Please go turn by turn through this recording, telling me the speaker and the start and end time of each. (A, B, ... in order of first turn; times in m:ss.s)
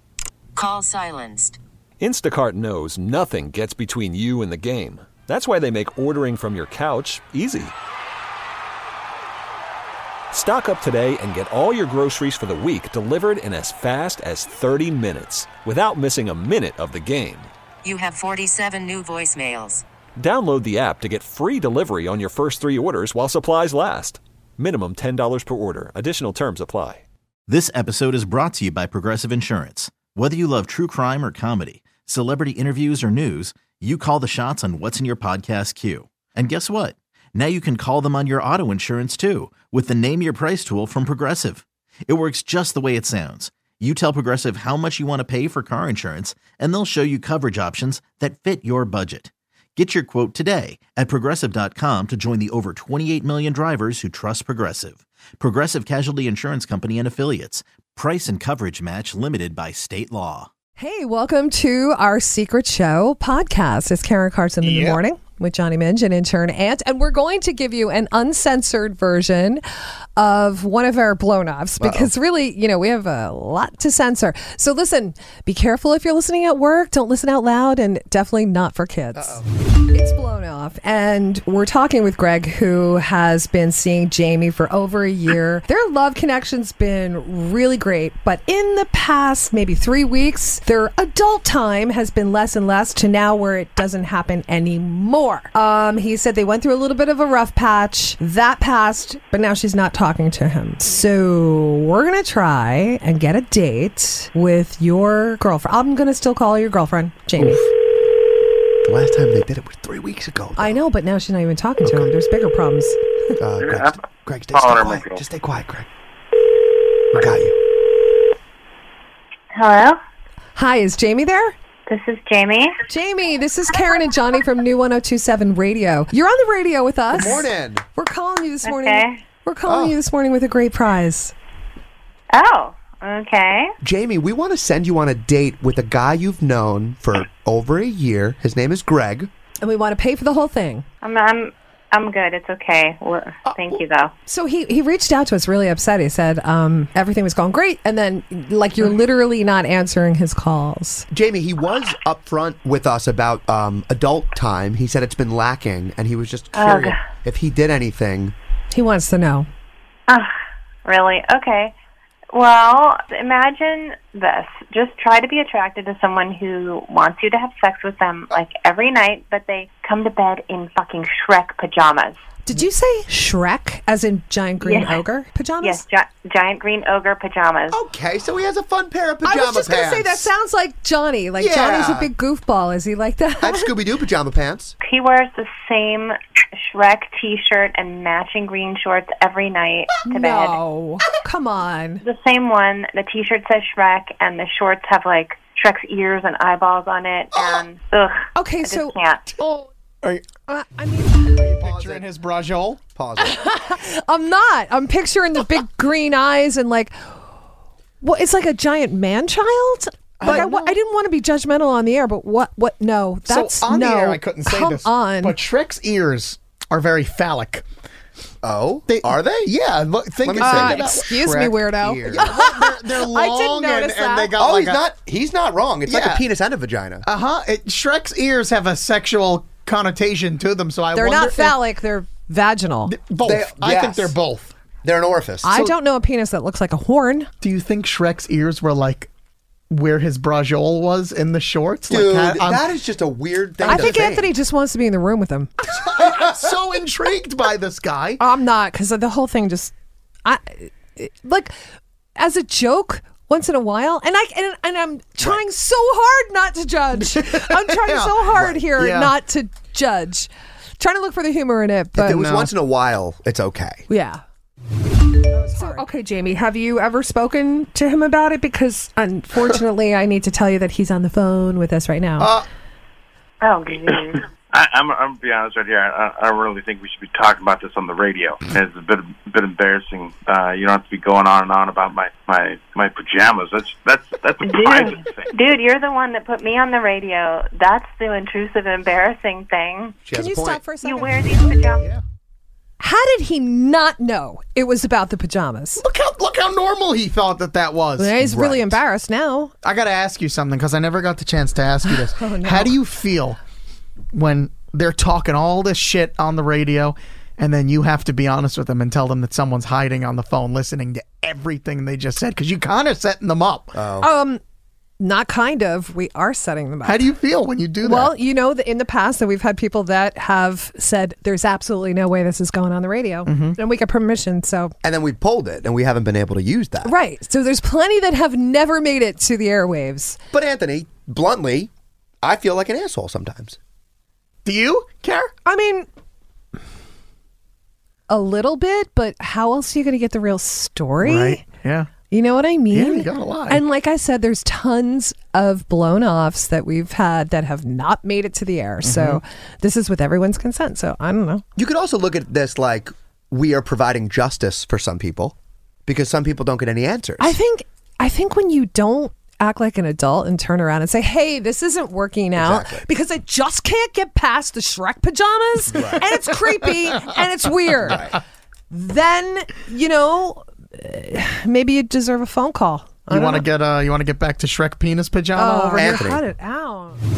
0:00.5-0:01.6 A
0:02.0-0:07.7 B
0:10.3-0:17.5 B
0:17.8-0:19.8 A
0:20.2-0:27.0 B
0:27.5-1:00.5 C
1:00.8-1:09.6 D
1:04.6-1:05.0 E
1:10.2-1:47.6 D
1:11.8-1:12.1 F
1:19.1-1:19.5 F
1:47.4-1:47.6 F
1:48.8-1:50.8 F
1:50.6-1:53.0 D
1:51.8-1:52.1 F
1:53.4-1:55.9 F
1:54.7-1:55.0 G
1:57.1-1:57.7 F
1:59.5-2:00.0 H
2:00.5-2:01.5 D
2:01.9-2:02.8 H
2:02.9-2:11.3 D
2:07.1-2:07.8 F
2:08.6-2:09.2 H
2:09.6-2:10.0 F
2:12.3-2:13.7 H
2:13.8-2:19.3 F
2:19.6-2:20.8 D
2:21.0-2:24.1 H
2:23.4-2:23.8 F
2:24.3-2:31.0 D
2:31.1-2:38.3 F
2:36.5-2:37.0 H
2:38.7-2:39.5 D
2:40.8-2:41.7 H
2:42.3-2:52.2 H
2:52.4-2:55.8 D
2:54.6-2:55.0 H
2:55.6-2:57.8 H
2:57.7-3:00.3 F
2:59.2-3:03.8 D
3:01.4-3:02.1 F
3:03.4-3:04.8 F
3:04.8-3:10.6 H
3:10.0-3:12.0 D
3:12.0-3:19.3 H
3:18.4-3:19.7 D
3:20.5-3:21.5 D
3:21.4-3:22.0 F
3:21.4-3:22.8 E
3:22.9-3:23.4 F
3:23.2-3:26.9 D
3:28.0-3:35.4 D
3:30.2-3:30.7 E
3:30.2-3:30.5 F
3:33.3-3:37.6 E
3:38.4-3:39.5 F
3:38.9-3:41.4 E
3:40.2-3:42.4 F
3:40.4-3:44.3 D
3:42.2-3:44.8 E
3:44.4-3:47.0 F
3:45.9-3:46.2 E
3:47.0-3:51.6 E
3:50.9-3:52.9 D
3:52.9-3:54.5 E
3:53.2-3:54.2 F
3:54.8-3:55.5 F
3:55.4-3:57.3 D
3:57.4-3:59.1 E
3:59.7-4:02.6 E
4:01.9-4:04.3 F
4:03.6-4:05.5 D
4:03.6-4:04.1 E
4:05.9-4:08.2 E
4:08.2-4:09.7 D
4:10.2-4:11.5 D
4:12.2-4:22.3 D
4:17.0-4:19.1 E
4:21.9-4:23.8 F
4:23.9-4:24.2 D
4:25.3-4:25.8 E
4:25.5-4:32.3 D
4:33.4-4:34.2 H
4:34.5-4:45.2 G
4:44.4-4:50.0 H
4:50.0-4:50.6 F
4:50.1-4:51.5 D
4:50.8-4:51.9 H
4:52.8-4:55.8 D
4:55.8-4:58.2 E
4:58.0-4:59.5 D
4:58.2-4:58.8 F
4:59.6-5:03.4 E
5:01.8-5:02.8 D
5:04.1-5:13.7 E
5:13.7-5:14.1 F
5:14.0-5:14.4 D
5:15.0-5:17.1 D
5:16.8-5:18.1 E
5:17.8-5:24.7 D
5:23.2-5:23.6 E
5:24.8-5:26.9 F
5:26.8-5:30.2 D
5:30.3-5:31.7 F
5:32.2-5:33.6 F
5:34.4-5:35.3 E
5:35.4-5:35.9 D
5:38.1-5:41.4 D
5:41.0-5:41.9 E
5:42.1-5:51.4 D
5:42.7-5:43.6 E
5:48.8-5:49.2 E
5:51.6-5:57.4 F
5:57.2-6:08.0 D
6:02.4-6:02.9 F
6:05.7-6:06.0 F
6:07.8-6:08.2 F
6:08.7-6:13.5 D
6:13.1-6:16.0 E
6:15.3-6:17.0 D
6:15.7-6:16.2 F